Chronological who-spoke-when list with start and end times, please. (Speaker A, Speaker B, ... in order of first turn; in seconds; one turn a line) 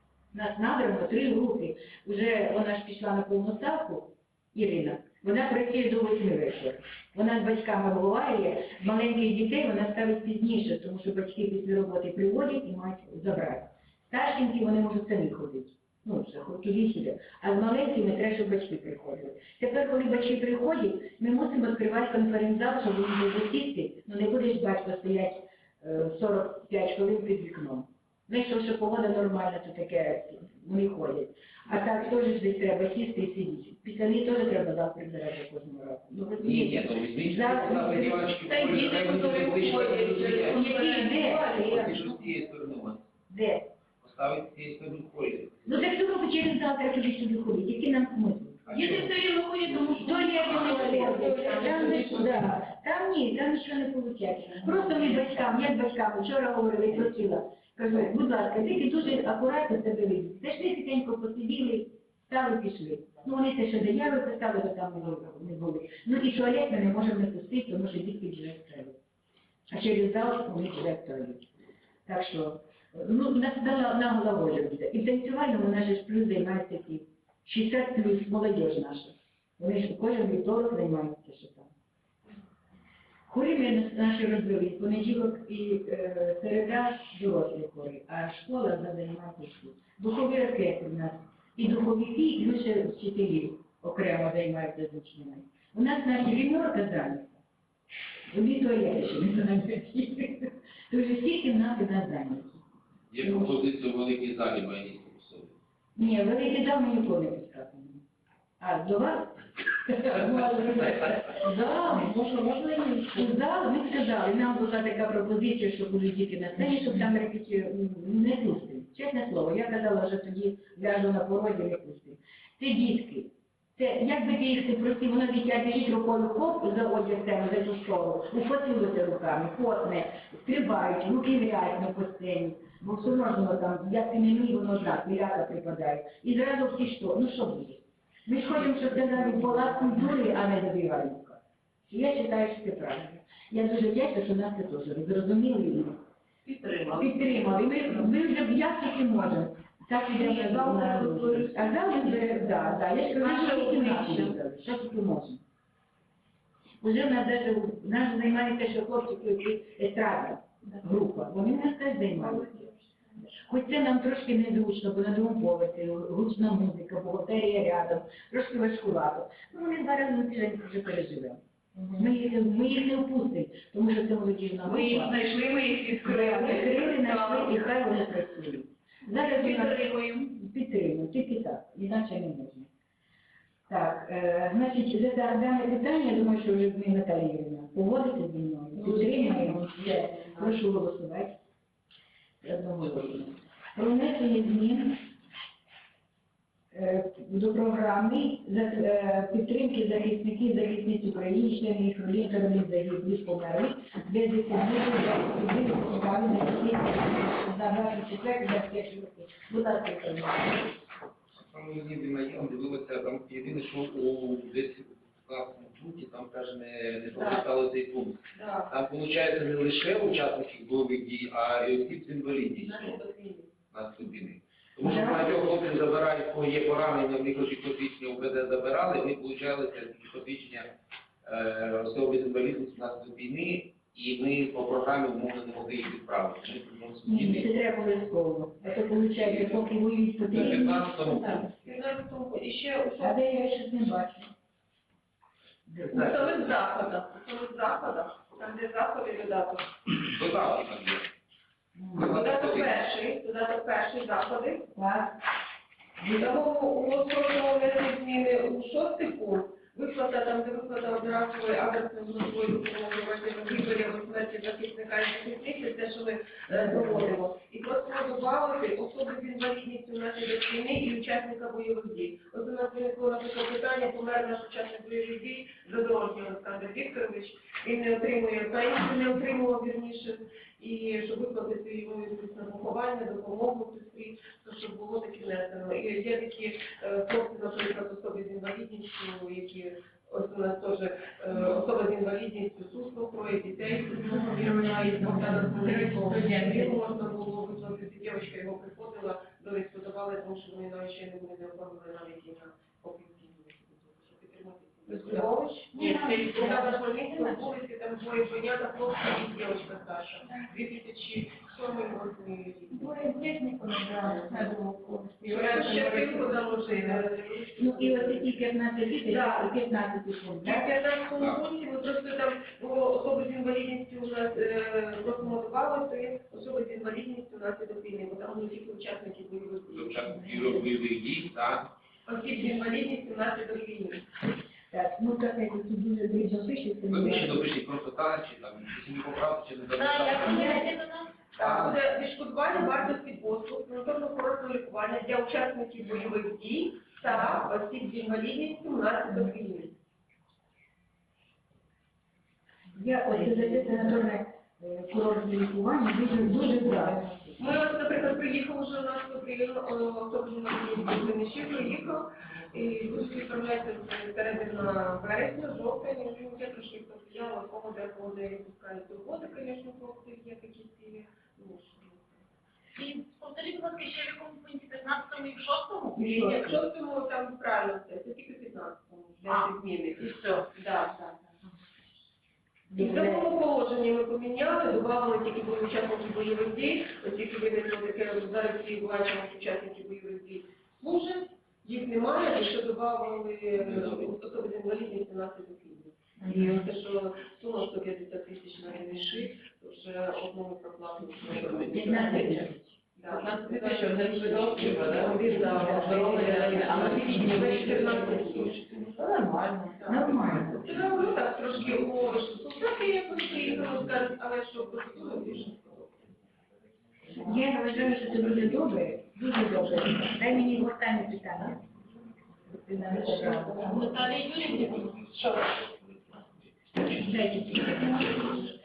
Speaker A: 0.3-38.5
Speaker B: 36.4-40.7
Speaker C: 38.5-41.7
Speaker A: 40.5-42.2
Speaker B: 41.3-43.1
Speaker A: 43.3-43.7
Speaker B: 44.0-45.8
Speaker A: 45.7-49.0
Speaker B: 48.7-49.1
Speaker D: 48.7-52.2
Speaker B: 49.7-50.0
Speaker A: 50.0-69.0
Speaker C: 50.5-52.3
Speaker A: 69.7-71.5
Speaker A: 72.1-81.7
Speaker A: 83.3-97.4
Speaker A: 98.3-102.6
Speaker B: 103.1-105.5
Speaker A: 103.2-103.5
Speaker A: 106.0-108.0
Speaker A: 108.6-112.1
Speaker E: 111.2-113.4
Speaker A: 113.1-146.0
Speaker E: 139.0-139.4
Speaker E: 146.4-148.0
Speaker A: 146.9-155.4
Speaker C: 150.1-152.5
Speaker C: 153.2-154.4
Speaker A: 156.8-162.7
Speaker C: 162.2-162.8
Speaker A: 163.3-171.4
Speaker A: 172.0-175.2
Speaker C: 174.7-177.7
Speaker A: 176.0-182.7
Speaker C: 179.1-180.2
Speaker A: 183.7-191.4
Speaker E: 188.8-190.5
Speaker A: 192.4-195.0
Speaker A: 196.7-210.8
Speaker B: 211.5-223.0
Speaker C: 217.2-217.4
Speaker C: 218.4-218.7
Speaker C: 222.6-223.5
Speaker B: 223.7-230.7
Speaker A: 224.8-225.3
Speaker B: 231.2-237.5
Speaker A: 237.1-241.0
Speaker B: 239.2-239.7
Speaker B: 240.3-241.5
Speaker C: 241.6-243.2
Speaker A: 243.0-244.3
Speaker A: 245.7-246.2
Speaker C: 245.9-249.7
Speaker B: 249.9-251.1
Speaker A: 251.8-252.1
Speaker B: 251.9-252.8
Speaker C: 252.0-254.7
Speaker A: 254.8-255.2
Speaker A: 256.0-256.3
Speaker C: 256.2-312.9
Speaker A: 266.5-267.2
Speaker A: 295.0-296.8
Speaker A: 304.9-307.4
Speaker A: 312.7-315.2
Speaker C: 315.2-318.3
Speaker E: 315.3-316.2
Speaker A: 317.6-320.8
Speaker C: 319.1-319.5
Speaker C: 320.4-330.0
Speaker B: 329.8-331.7
Speaker C: 332.1-334.0
Speaker A: 334.7-337.5
Speaker B: 336.9-340.7
Speaker D: 339.8-341.2
Speaker C: 341.4-349.7
Speaker B: 341.4-341.8
Speaker A: 352.7-357.3
Speaker C: 357.4-372.1
Speaker D: 372.8-375.8
Speaker A: 375.9-376.6
Speaker C: 376.0-381.2
Speaker E: 380.1-380.3
Speaker A: 382.7-383.3
Speaker C: 382.8-402.4
Speaker B: 393.6-394.1
Speaker A: 396.2-396.7
Speaker B: 401.2-402.1
Speaker A: 401.6-402.8
Speaker C: 403.0-408.9
Speaker E: 403.1-410.1
Speaker A: 405.4-407.7
Speaker A: 409.9-410.7
Speaker C: 410.5-415.8
Speaker B: 410.8-411.1
Speaker A: 417.1-421.7
Speaker A: 422.5-423.9
Speaker D: 423.6-424.8
Speaker B: 424.6-426.5
Speaker A: 426.9-428.4